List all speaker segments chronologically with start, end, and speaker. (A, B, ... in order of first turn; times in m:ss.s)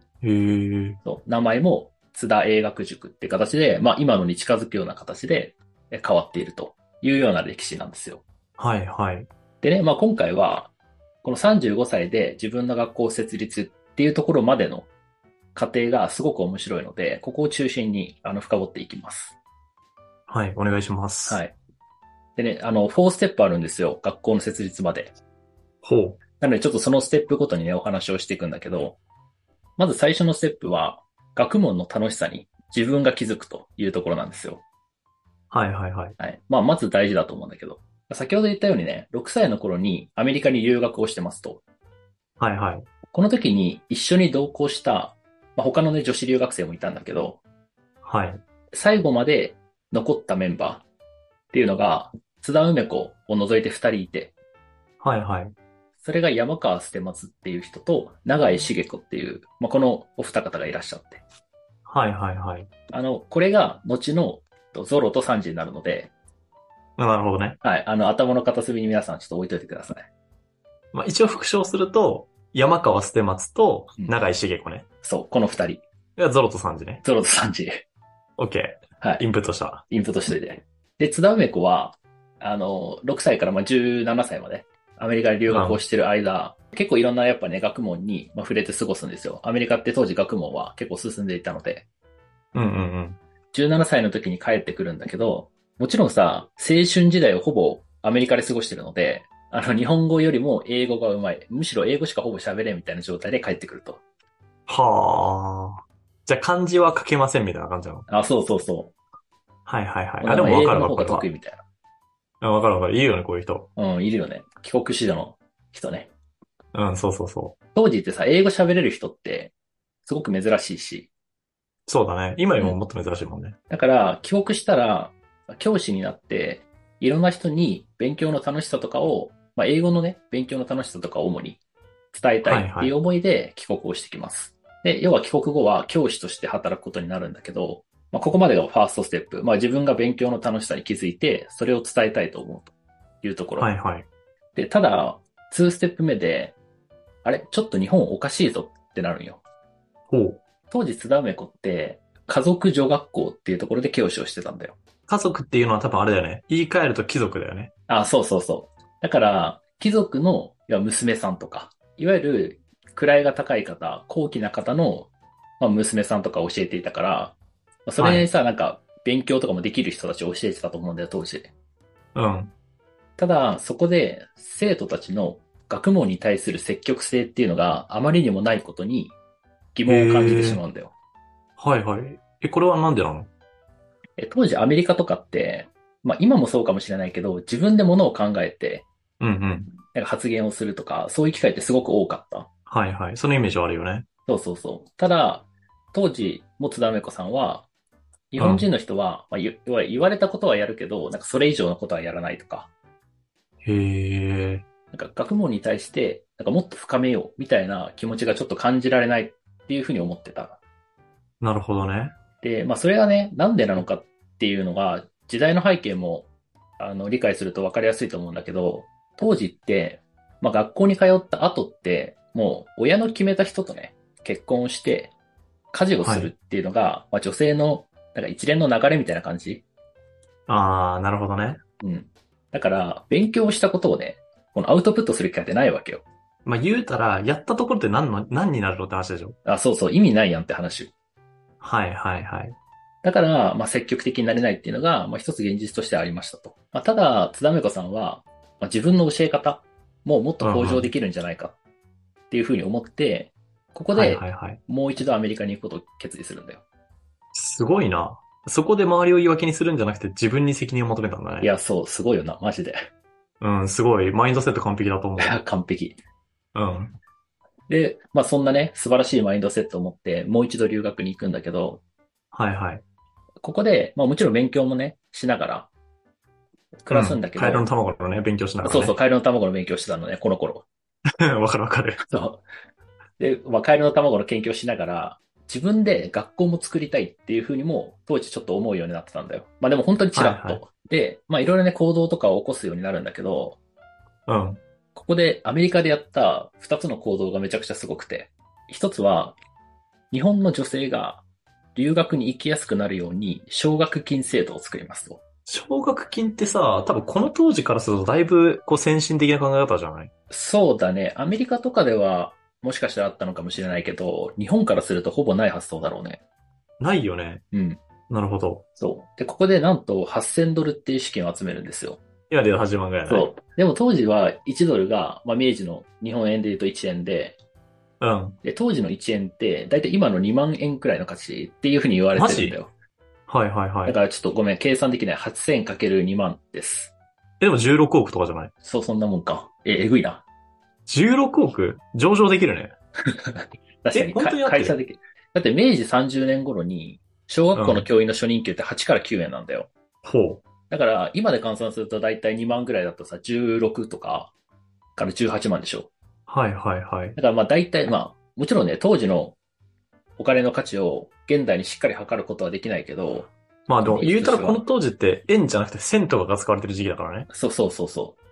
0:00.2-0:01.0 A
0:01.0-0:08.2 B
0:08.6-0:09.3 A
0:09.6-0:10.7 B
0:11.2-0:14.9 B
0:15.6-0:19.4 B
0:20.3-0:21.4 A
0:21.3-0:21.6 B
0:22.4-0:25.2 B
0:25.8-0:26.2 A
0:26.4-0:29.0 B
0:29.8-0:34.6 B
0:35.5-0:36.2 A
0:36.2-0:41.6 B
0:42.4-0:42.9 A
0:43.1-0:47.4 B
0:48.0-0:48.4 A
0:48.7-0:50.9 B
0:51.5-0:54.3 B
0:55.0-0:55.6 A
0:56.0-1:01.2 B
1:01.9-1:02.7 A
1:02.9-1:06.1 B
1:07.0-1:07.6 A
1:07.6-1:10.1 B
1:10.9-1:14.9 A
1:15.0-1:15.8 B
1:16.2-1:17.0 A
1:17.0-1:17.8 B
1:18.4-1:19.8 A
1:19.9-1:31.9 B
1:25.5-1:25.8 A
1:32.5-1:33.2 A
1:33.5-1:44.0 B
1:44.7-1:48.1 A
1:48.1-1:49.0 B
1:49.7-1:51.3 A
1:50.2-1:51.6 B
1:52.4-1:53.7 A
1:53.8-1:56.1 B
1:56.7-1:57.6 A
1:57.8-1:59.5 B
2:00.0-2:01.1 B
2:01.9-2:03.6 A
2:03.7-2:11.6 B
2:12.1-2:23.7 B
2:12.4-2:13.0 A
2:23.6-2:24.1 A
2:24.5-2:26.6 B
2:27.2-2:29.4 B
2:30.1-2:30.4 A
2:30.7-2:34.8 B
2:35.1-2:37.7 A
2:37.9-2:51.5 B
2:48.0-2:48.3 A
2:52.2-2:52.5 A
2:53.2-2:59.2 B
2:59.8-3:00.9 B
2:59.9-3:00.6 A
3:01.6-3:03.3 A
3:04.2-3:08.9 B
3:09.2-3:09.7 A
3:09.9-3:12.5 B
3:12.7-3:14.1 A
3:14.3-3:17.7 B
3:18.3-3:22.7 B
3:18.4-3:18.7 A
3:23.6-3:24.6 A
3:24.9-3:30.6 B
3:31.4-3:32.2 A
3:32.4-3:45.1 B
3:45.7-3:49.6 B
3:46.0-3:46.3 A
3:50.5-3:51.6 A
3:51.8-3:56.0 B
3:56.4-3:59.4 A
3:59.4-4:00.9 B
4:01.6-4:02.6 A
4:03.0-4:11.6 B
4:10.4-4:10.9 A
4:12.3-4:16.6 B
4:13.9-4:14.6 A
4:17.3-4:21.5 A
4:21.4-4:22.8 B
4:23.4-4:25.4 A
4:25.2-4:26.0 B
4:26.6-4:27.0 A
4:27.7-4:31.8 B
4:32.3-4:32.8 A
4:33.4-4:35.7 B
4:36.8-4:37.7 B
4:36.9-4:39.0 A
4:38.6-4:40.7 B
4:41.2-4:42.0 A
4:42.0-4:42.4 B
4:43.2-4:53.6 B
4:50.2-4:50.6 A
4:54.3-4:54.6 A
4:55.0-4:59.4 B
5:00.1-5:05.2 B
5:05.5-5:10.1 A
5:10.3-5:16.2 B
5:16.8-5:17.4 A
5:17.5-5:17.8 B
5:18.1-5:18.6 A
5:18.8-5:22.0 B
5:22.3-5:23.3 A
5:23.1-5:27.4 B
5:28.0-5:28.4 A
5:28.4-5:32.7 B
5:32.2-5:32.6 A
5:33.3-5:34.0 A
5:33.8-5:36.9 B
5:37.4-5:38.5 A
5:38.6-5:40.2 B
5:40.9-5:42.7 A
5:43.1-5:49.7 B
5:43.9-5:44.8 A
5:47.5-5:47.9 A
5:50.0-5:50.4 A
5:50.7-5:54.3 B
5:55.0-5:55.9 B
5:56.3-5:57.2 A
5:57.2-5:59.4 B
6:00.2-6:04.6 B
6:03.7-6:07.3 A
6:07.3-6:08.2 B